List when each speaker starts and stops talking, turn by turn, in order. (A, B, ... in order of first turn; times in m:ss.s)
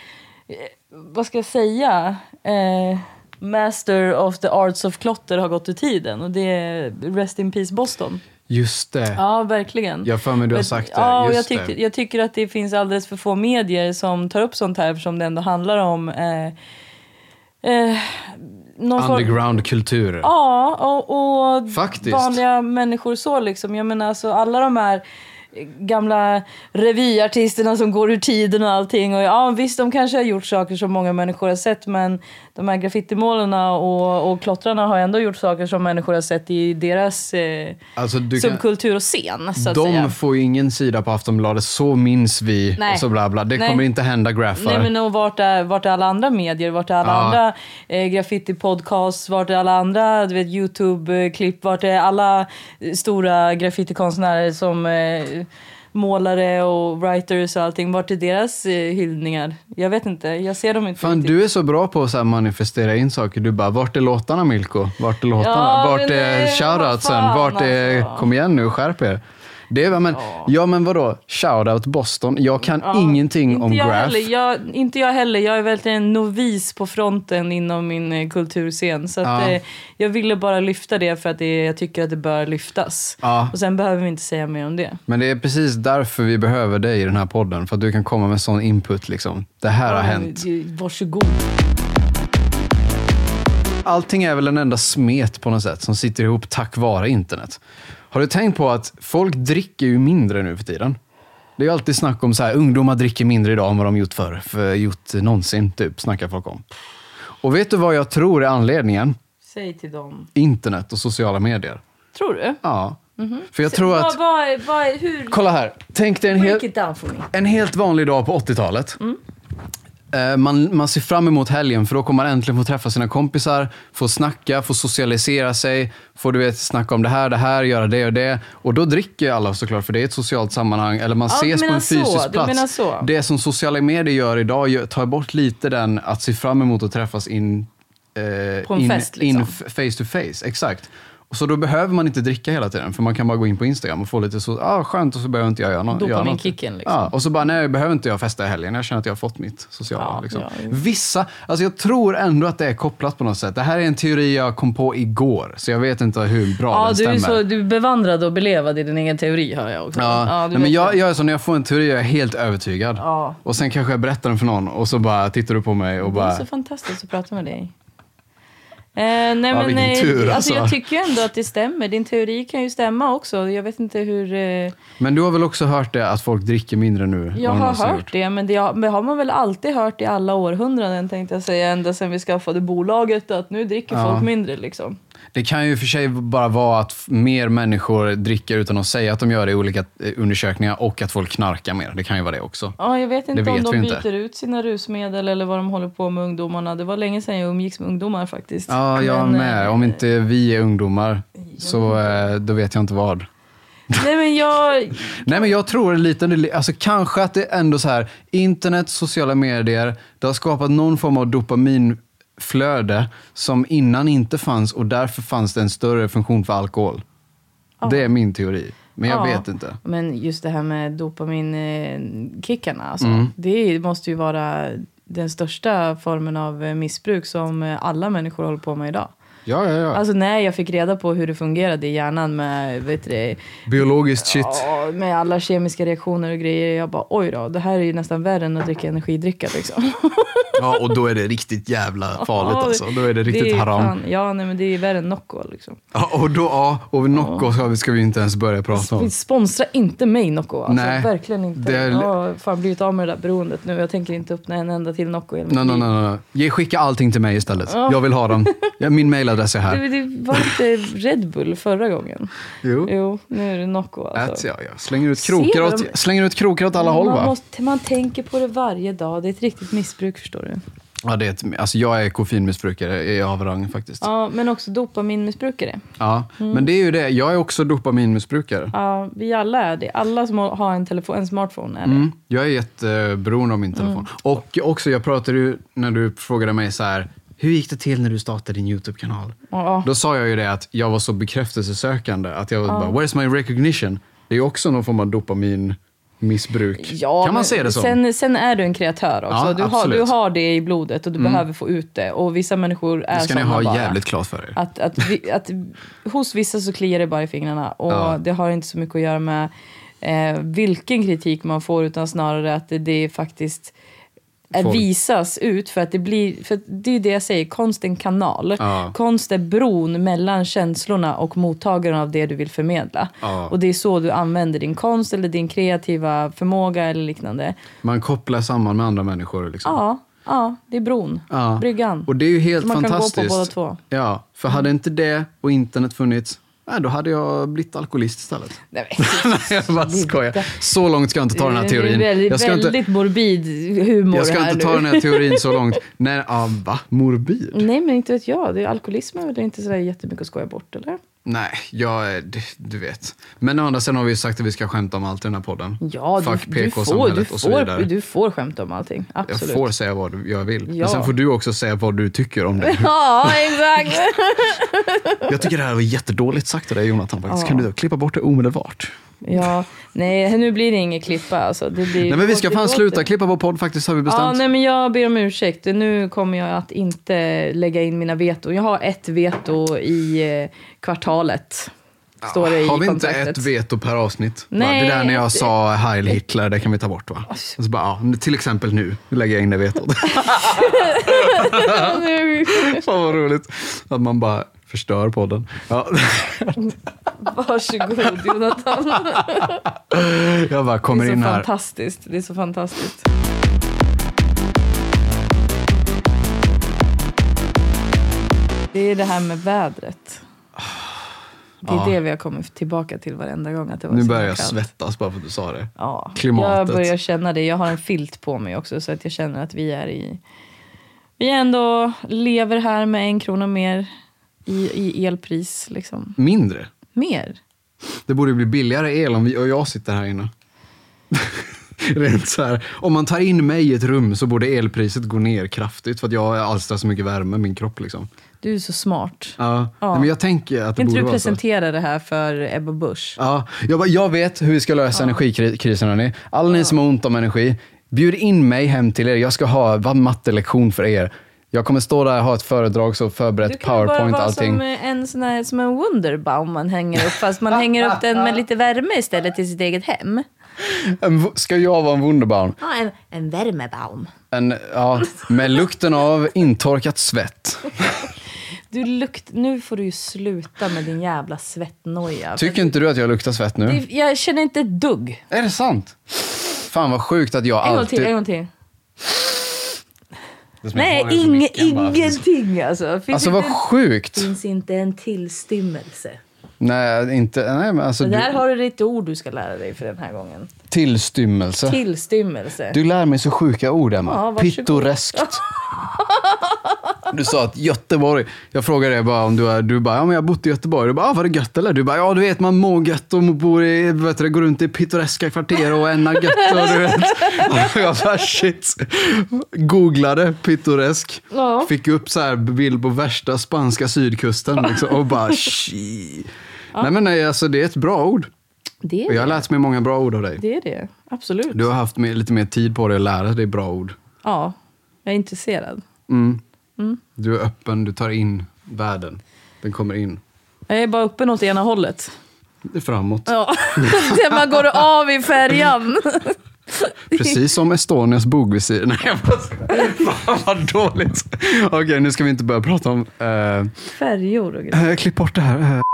0:00.5-0:08.2 A
0:08.5-0:09.2 B
0:09.1-0:16.5 A
0:10.0-0:11.7 B
0:17.6-0:19.4 A
0:19.0-0:20.3 B
0:20.2-0:37.8 A
0:21.7-0:22.4 B
0:38.0-0:38.6 B
0:38.3-0:40.1 A
0:39.6-0:44.9 B
0:42.8-0:43.8 A
0:44.5-1:01.4 A
0:47.0-0:47.4 B
1:01.0-1:14.3 B
1:05.4-1:08.3 A
1:10.1-1:10.5 A
1:12.8-1:25.0 A
1:19.2-1:19.6 B
1:23.2-1:23.5 B
1:25.1-1:30.4 B
1:29.8-1:31.4 A
1:33.8-1:37.6 B
1:38.1-1:41.0 B
1:41.6-1:46.6 B
1:47.4-1:49.2 B
1:49.4-1:50.3 A
1:50.3-1:51.8 B
1:52.1-1:52.6 A
1:52.6-1:53.0 B
1:53.2-1:55.4 A
1:53.5-1:54.2 B
1:55.3-1:56.6 B
1:56.3-1:57.3 A
1:57.3-1:59.0 B
2:00.1-2:37.4 B
2:11.3-2:13.1 A
2:18.7-2:19.6 A
2:25.9-2:27.1 A
2:30.0-2:30.8 A
2:36.7-2:41.0 A
2:39.9-2:46.4 B
2:43.0-2:43.4 A
2:46.0-2:47.7 A
2:49.0-2:54.8 A
2:49.5-2:50.8 B
2:55.0-2:58.1 B
2:57.3-3:05.0 A
3:03.9-3:04.3 B
3:05.3-3:12.8 B
3:12.8-3:20.0 A
3:13.3-3:14.0 B
3:18.7-3:23.3 B
3:21.5-3:22.1 A
3:23.9-3:25.5 A
3:25.2-3:37.0 B
3:37.8-3:38.1 A
3:37.8-3:39.8 B
3:39.0-3:49.1 A
3:43.0-3:43.3 B
3:49.4-3:50.0 B
3:49.9-3:53.5 A
3:53.6-3:54.7 B
3:54.2-4:00.6 A
4:00.6-4:03.9 B
4:02.2-4:05.8 A
4:05.9-4:09.1 B
4:07.1-4:07.4 A
4:08.7-4:15.9 A
4:10.7-4:12.1 B
4:15.5-4:19.8 B
4:17.7-4:18.7 A
4:19.7-4:22.3 A
4:22.6-4:22.9 B
4:22.8-4:24.4 A
4:24.1-4:27.3 B
4:25.2-4:25.9 A
4:26.8-4:30.6 A
4:31.0-4:34.0 B
4:34.0-4:35.8 A
4:36.0-4:38.7 B
4:36.4-4:36.7 A
4:38.7-4:42.1 A
4:41.8-4:58.0 B
4:49.5-4:49.9 A
4:52.7-4:52.9 A
4:56.8-5:04.0 A
4:59.3-5:00.1 B
5:01.2-5:01.4 B
5:03.1-5:04.6 B
5:04.5-5:09.5 A
5:07.9-5:08.2 B
5:10.0-5:13.7 A
5:14.5-5:27.6 A
5:14.5-5:14.8 B
5:18.6-5:18.9 B
5:23.2-5:23.5 B
5:27.8-5:29.8 B
5:29.6-5:33.8 A
5:31.3-5:42.8 B
5:38.7-5:40.6 A
5:41.3-5:45.6 A
5:44.1-5:47.6 B
5:47.5-5:51.0 A
5:51.2-5:57.9 B
5:55.8-5:59.7 A
5:59.3-6:03.8 B
6:00.6-6:01.1 A
6:02.6-6:05.3 A
6:05.2-6:09.4 B
6:07.3-6:07.7 A
6:09.2-6:13.0 A
6:12.0-6:14.4 B
6:14.0-6:21.7 A
6:22.2-6:36.7 B
6:22.2-6:23.5 A
6:24.5-6:25.5 A
6:30.1-6:32.8 A
6:37.2-6:39.6 A
6:39.1-6:41.5 B
6:40.9-6:43.0 A
6:48.7-6:50.2 A
6:51.6-6:52.0 B
6:51.6-6:54.6 A
6:53.9-6:56.9 B
6:55.8-7:00.2 A
7:01.2-7:03.9 A
7:04.5-7:06.2 A
7:06.2-7:06.7 B
7:06.9-7:07.4 A
7:08.1-7:10.3 B
7:11.1-7:18.1 B
7:18.4-7:20.1 A
7:19.4-7:21.4 B
7:20.8-7:23.2 A
7:23.2-7:34.6 B
7:33.4-7:40.2 A
7:40.6-7:42.6 B
7:42.6-7:44.1 A
7:44.3-7:48.1 B
7:48.7-7:52.7 A
7:52.4-7:53.8 B
7:53.6-7:55.2 A
7:55.3-7:56.0 B
7:56.6-7:58.1 B
7:57.6-7:58.5 A
8:00.6-8:02.2 B
8:00.7-8:06.2 A
8:03.1-8:04.3 B
8:06.6-8:08.4 B
8:08.0-8:10.5 A
8:10.7-8:11.8 B
8:11.6-8:12.8 A
8:12.7-8:15.4 B
8:14.0-8:16.8 A
8:17.1-8:38.3 B
8:26.3-8:27.5 A
8:31.3-8:31.7 A
8:38.8-8:39.4 A
8:39.1-8:40.4 B
8:40.4-8:41.7 A
8:41.5-8:44.0 B
8:44.2-8:45.8 A
8:46.1-8:46.4 B
8:47.2-8:50.2 B
8:50.7-8:52.1 A
8:52.6-8:54.8 B
8:53.3-8:57.4 A
8:57.1-9:03.7 B
9:03.9-9:04.8 A
9:04.7-9:05.8 B